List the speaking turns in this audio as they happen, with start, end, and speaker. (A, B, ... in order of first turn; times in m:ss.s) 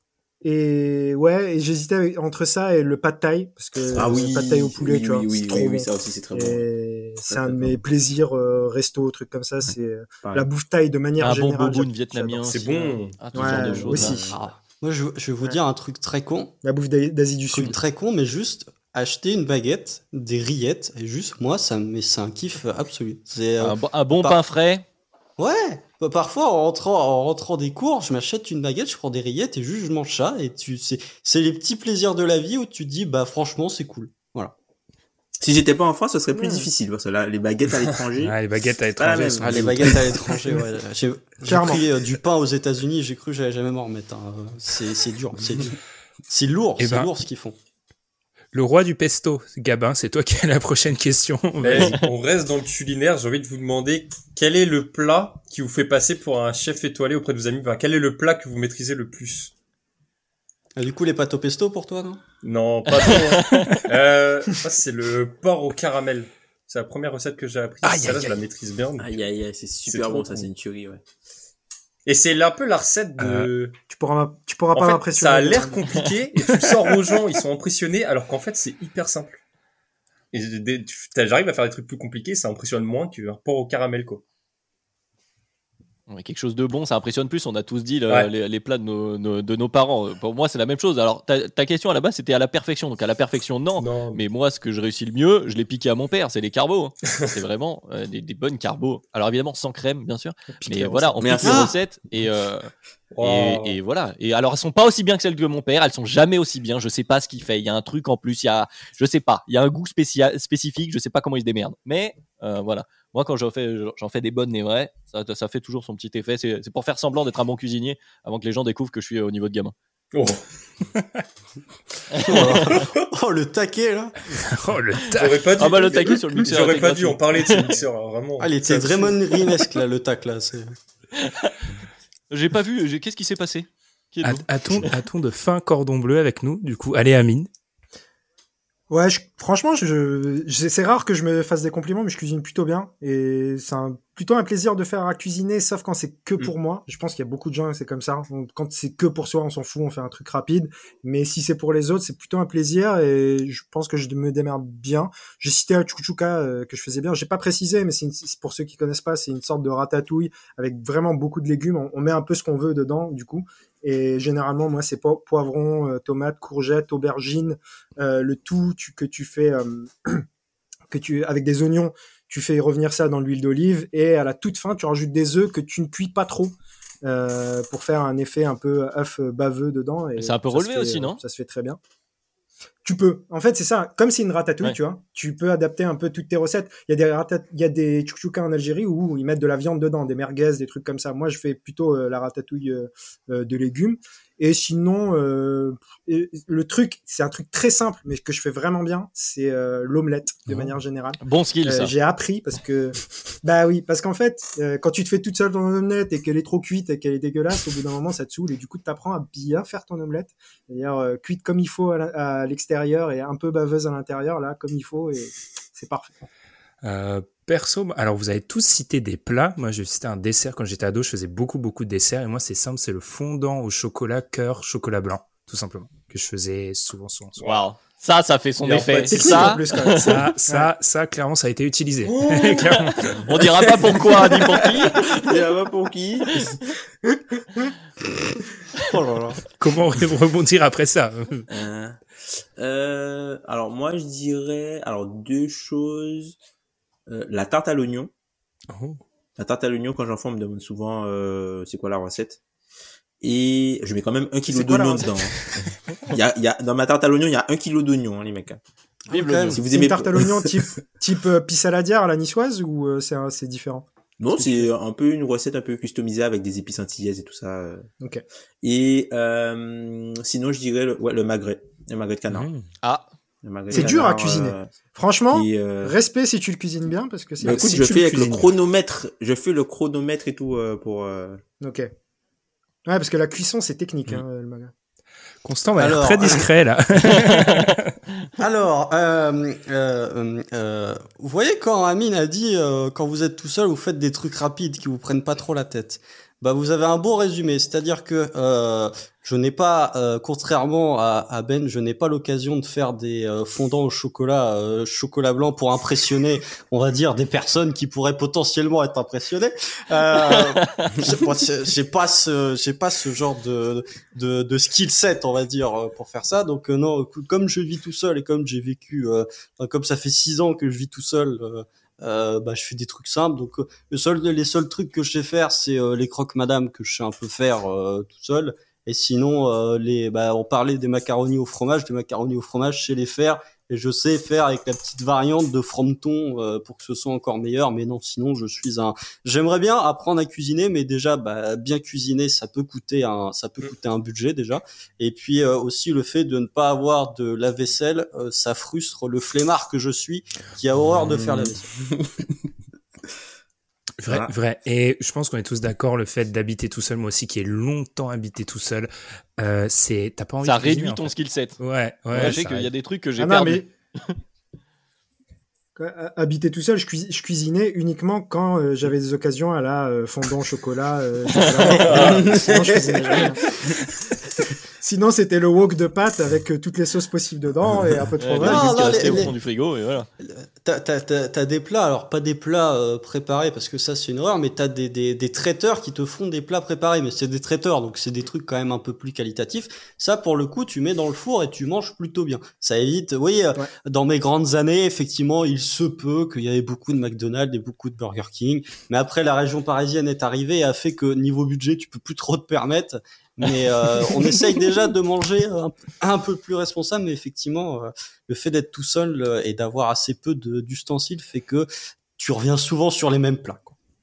0:00.4-0:14.4 A
0:03.8-0:06.6 B
0:07.3-0:07.8 B
0:10.2-0:10.5 B
0:11.2-0:14.3 C
0:12.5-0:13.2 D
0:13.3-0:14.4 B
0:14.3-0:16.6 E
0:16.6-0:17.8 A
0:17.5-0:24.4 E
0:23.6-0:24.8 C
0:25.4-0:34.5 E
0:35.4-0:38.4 B
0:36.4-0:36.7 A
0:38.2-0:40.3 F
0:39.0-0:40.3 B
0:39.4-0:47.6 E
0:41.4-0:41.9 A
0:46.8-0:47.1 F
0:48.5-0:52.0 F
0:51.6-0:59.5 D
1:00.8-1:02.2 E
1:02.4-1:09.2 D
1:03.1-1:03.7 C
1:03.5-1:03.8 F
1:07.8-1:08.4 F
1:09.0-1:11.0 B
1:09.9-1:10.5 D
1:12.1-1:13.8 D
1:13.2-1:13.5 F
1:13.9-1:15.8 A
1:14.7-1:19.4 D
1:16.4-1:16.8 F
1:20.3-1:24.2 D
1:26.1-1:42.7 C
1:33.8-1:34.2 D
1:40.5-1:40.9 A
1:40.8-1:41.7 B
1:41.4-1:41.7 E
1:43.1-1:43.8 D
1:43.2-1:59.7 C
2:00.1-2:00.4 D
2:01.0-2:01.2 F
2:02.2-2:02.8 C
2:02.2-2:04.2 E
2:04.3-2:05.6 F
2:05.1-2:09.1 D
2:05.6-2:07.7 C
2:08.4-2:10.8 E
2:11.2-2:11.6 C
2:12.3-2:14.9 C
2:14.2-2:17.5 F
2:18.9-2:50.2 A
2:50.9-3:01.8 A
3:00.2-3:01.2 C
3:02.8-3:36.2 A
3:21.2-3:21.9 C
3:36.8-3:47.4 F
3:47.4-3:47.7 D
3:47.4-3:50.2 C
3:48.6-3:49.7 D
3:49.0-3:50.7 A
3:50.0-3:53.2 F
3:52.0-3:53.2 D
3:53.3-3:55.2 C
3:55.0-3:56.5 B
3:58.9-3:59.4 E
3:59.6-4:01.5 F
4:01.5-4:06.4 B
4:07.1-4:08.1 B
4:08.7-4:09.0 F
4:09.4-4:12.4 B
4:13.2-4:18.6 B
4:14.5-4:15.3 A
4:19.1-4:19.6 E
4:19.1-4:19.6 C
4:19.5-4:20.8 B
4:19.7-4:24.7 A
4:24.2-4:27.9 B
4:28.6-4:32.5 B
4:32.3-4:32.6 F
4:33.4-4:34.8 B
4:33.7-4:37.9 A
4:35.3-4:36.0 B
4:37.4-4:38.5 F
4:37.4-4:41.4 B
4:41.6-4:41.9 A
4:42.9-4:44.7 A
4:45.4-4:48.0 F
4:45.8-4:46.5 E
4:47.0-4:47.8 C
4:48.4-5:51.7 E
5:10.5-5:11.0 C
5:50.9-5:52.1 B
5:54.0-6:02.7 F
6:00.4-6:01.6 C
6:02.1-6:04.2 C
6:03.2-6:03.7 A
6:05.8-6:13.5 A
6:11.7-6:12.3 D
6:11.7-6:12.1 C
6:11.9-6:13.2 B
6:14.8-6:19.2 A
6:18.2-6:20.1 C
6:18.4-6:19.3 E
6:20.2-6:53.7 E